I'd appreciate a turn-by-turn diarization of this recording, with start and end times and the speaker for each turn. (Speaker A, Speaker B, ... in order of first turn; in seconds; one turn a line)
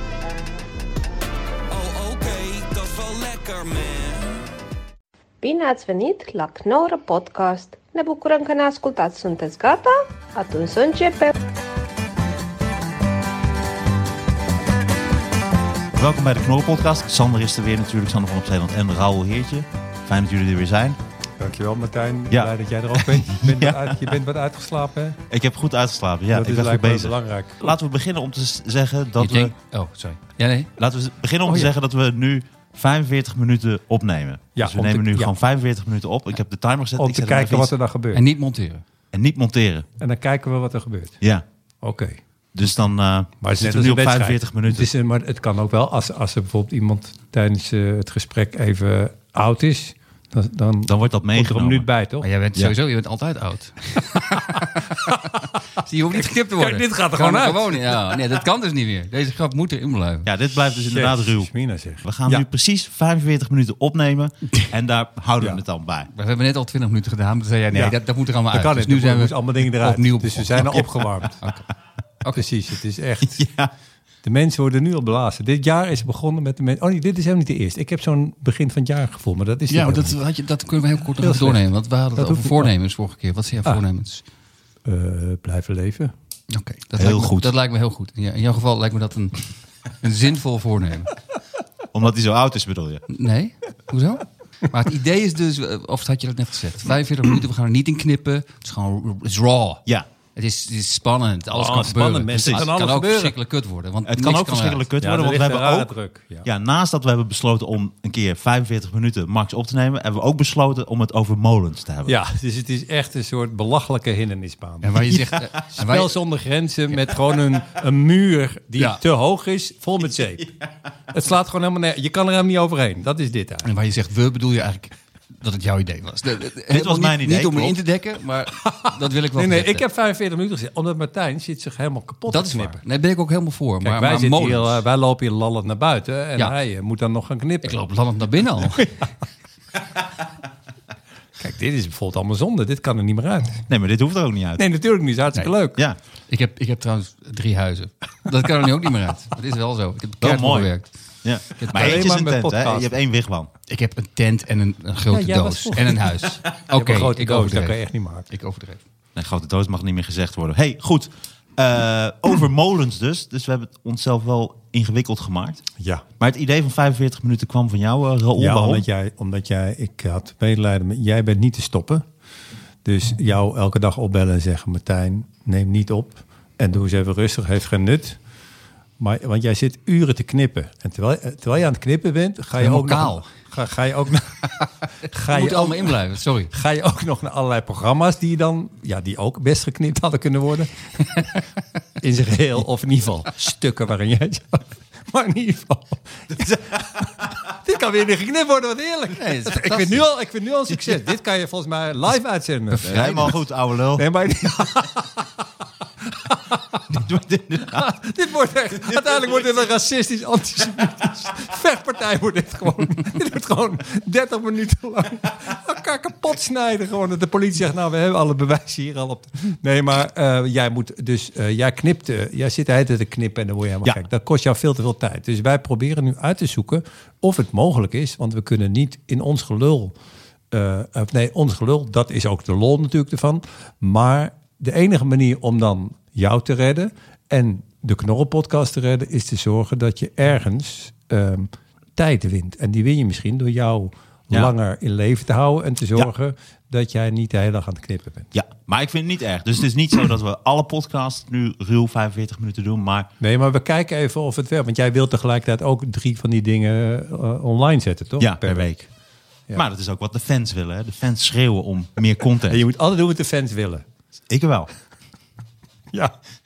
Speaker A: 1.7-4.5
Speaker B: 5.4-11.3
Speaker C: 15.9-21.0
Speaker D: 21.4-25.2
Speaker C: 22.3-24.1
Speaker C: 25.3-29.5
Speaker D: 26.3-27.7
Speaker E: 29.2-30.7
Speaker C: 30.8-37.7
Speaker D: 31.5-31.7
Speaker D: 34.6-35.3
Speaker D: 37.0-38.2
Speaker E: 38.1-38.8
Speaker C: 39.1-39.9
Speaker D: 40.0-41.2
Speaker D: 41.8-42.2
Speaker C: 42.5-44.9
Speaker D: 43.4-52.3
Speaker C: 50.9-51.9
Speaker E: 52.2-60.3
Speaker D: 56.1-58.2
Speaker C: 60.3-61.5
Speaker D: 60.9-62.5
Speaker C: 62.0-66.1
Speaker E: 66.1-71.6
Speaker D: 68.5-71.4
Speaker D: 72.3-73.4
Speaker C: 73.2-73.7
Speaker D: 74.2-80.2
Speaker E: 79.7-84.2
Speaker D: 81.2-81.6
Speaker D: 82.2-82.7
Speaker D: 84.8-86.1
Speaker E: 86.5-91.1
Speaker C: 87.0-87.5
Speaker C: 91.9-93.0
Speaker E: 93.1-99.8
Speaker E: 100.3-104.9
Speaker D: 101.5-103.4
Speaker C: 102.3-102.7
Speaker C: 104.1-105.9
Speaker D: 105.0-106.5
Speaker C: 106.4-112.2
Speaker D: 112.1-120.5
Speaker E: 114.8-116.2
Speaker D: 121.1-123.7
Speaker E: 123.6-129.8
Speaker C: 126.7-127.8
Speaker D: 128.7-132.8
Speaker E: 132.3-134.8
Speaker D: 133.8-137.8
Speaker E: 137.6-138.9
Speaker D: 141.4-143.6
Speaker C: 143.7-144.7
Speaker D: 144.6-145.8
Speaker E: 146.3-150.9
Speaker C: 150.2-150.7
Speaker C: 151.2-153.5
Speaker E: 151.6-152.1
Speaker D: 151.7-152.9
Speaker E: 153.7-158.8
Speaker D: 155.1-158.3
Speaker C: 159.2-165.6
Speaker D: 165.8-166.0
Speaker C: 166.2-168.8
Speaker D: 168.4-172.1
Speaker D: 172.8-178.2
Speaker D: 179.0-184.5
Speaker E: 182.6-183.3
Speaker D: 185.0-186.0
Speaker E: 185.2-186.5
Speaker D: 186.5-191.4
Speaker D: 192.0-203.3
Speaker E: 199.2-200.0
Speaker E: 202.7-203.4
Speaker C: 202.8-204.1
Speaker D: 204.0-205.4
Speaker D: 206.1-207.0
Speaker C: 206.9-207.9
Speaker D: 207.7-229.9
Speaker C: 208.9-209.1
Speaker D: 230.5-248.3
Speaker C: 248.3-253.1
Speaker D: 253.2-258.7
Speaker C: 258.2-258.9
Speaker C: 259.5-262.6
Speaker D: 262.5-263.9
Speaker C: 264.3-264.7